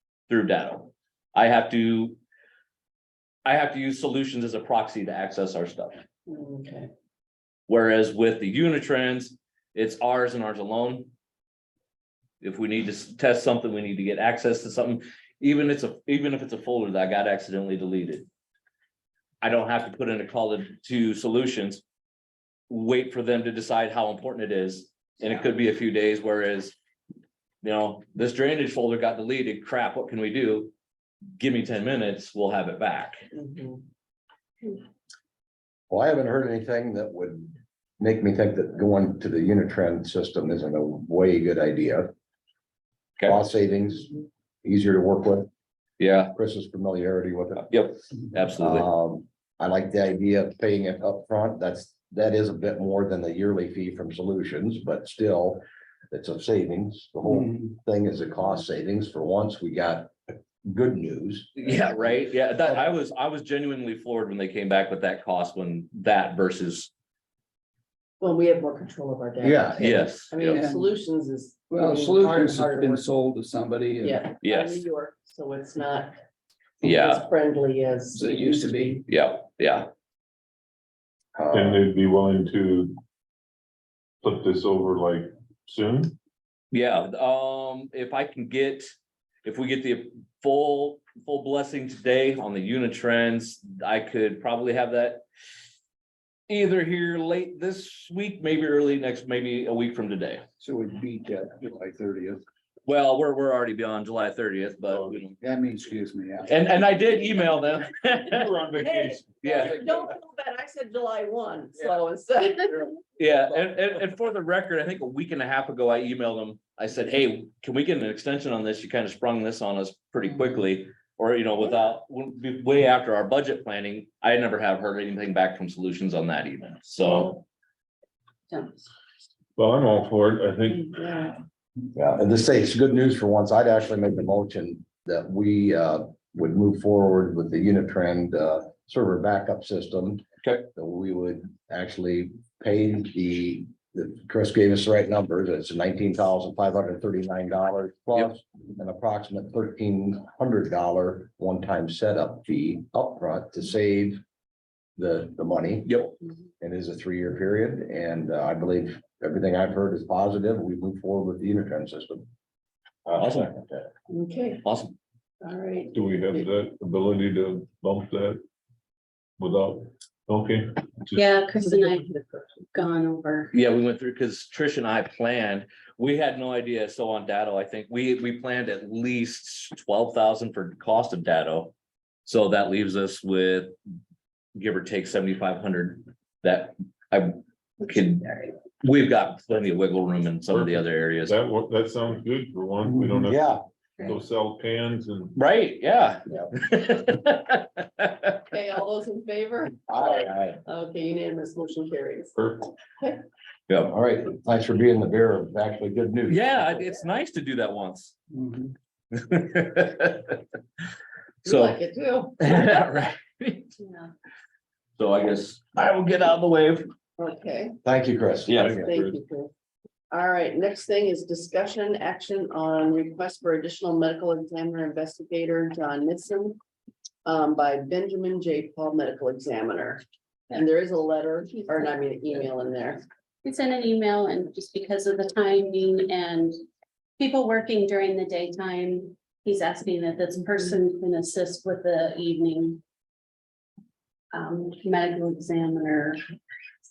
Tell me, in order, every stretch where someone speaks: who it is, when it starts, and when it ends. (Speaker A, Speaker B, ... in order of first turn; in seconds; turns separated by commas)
Speaker A: 0.3-2.2, Speaker A: 3.4-6.0, Speaker B: 6.3-6.9, Speaker A: 7.7-11.1, Speaker A: 12.4-18.2, Speaker A: 19.4-21.8, Speaker A: 22.7-26.8, Speaker A: 27.6-30.7, Speaker A: 31.4-33.2, Speaker B: 33.3-33.8, Speaker C: 35.9-42.1, Speaker C: 43.2-45.5, Speaker A: 46.0-46.3, Speaker C: 46.3-47.7, Speaker A: 47.7-48.9, Speaker C: 48.6-62.1, Speaker A: 61.5-66.9, Speaker B: 68.2-73.0, Speaker C: 69.4-70.0, Speaker A: 69.8-70.6, Speaker D: 70.5-70.9, Speaker D: 71.7-74.3, Speaker B: 74.0-76.1, Speaker A: 74.4-74.8, Speaker A: 76.8-77.2, Speaker B: 76.8-78.7, Speaker D: 78.1-79.0, Speaker A: 79.1-79.9, Speaker C: 81.3-81.8, Speaker E: 81.5-83.0, Speaker E: 84.2-86.1, Speaker A: 86.7-88.9, Speaker A: 89.4-95.2, Speaker A: 96.5-100.4, Speaker D: 100.6-102.4, Speaker A: 102.8-105.3, Speaker E: 104.9-105.2, Speaker D: 105.4-106.5, Speaker A: 106.4-108.5, Speaker E: 108.3-109.7, Speaker B: 108.7-113.0, Speaker A: 109.4-109.8, Speaker A: 113.2-127.4, Speaker E: 129.6-130.9, Speaker B: 130.7-131.4, Speaker C: 131.9-154.2, Speaker C: 155.0-162.2, Speaker C: 163.1-163.5, Speaker A: 163.1-163.7, Speaker B: 164.1-164.6, Speaker A: 164.6-164.9, Speaker B: 165.4-166.5, Speaker E: 165.9-168.4, Speaker E: 169.4-171.2, Speaker F: 171.1-172.1, Speaker B: 171.6-172.7, Speaker F: 172.7-173.5, Speaker A: 173.5-181.7, Speaker A: 182.2-183.7, Speaker A: 184.5-191.4, Speaker E: 190.5-195.3, Speaker C: 193.2-193.6, Speaker A: 195.3-198.4, Speaker B: 198.5-202.4, Speaker C: 199.9-200.5, Speaker E: 202.4-202.7, Speaker B: 203.0-203.2, Speaker C: 203.8-206.8, Speaker A: 206.3-208.1, Speaker D: 208.3-208.7, Speaker A: 209.1-210.4, Speaker A: 211.4-211.8, Speaker B: 211.4-212.7, Speaker A: 212.4-213.7, Speaker B: 213.8-214.1, Speaker A: 215.0-216.9, Speaker B: 217.2-217.8, Speaker C: 217.8-218.8, Speaker A: 218.4-218.7, Speaker E: 218.5-219.2, Speaker B: 218.8-219.5, Speaker B: 220.1-226.6, Speaker B: 227.2-233.0, Speaker F: 233.4-236.6, Speaker F: 237.2-242.8, Speaker F: 244.3-246.2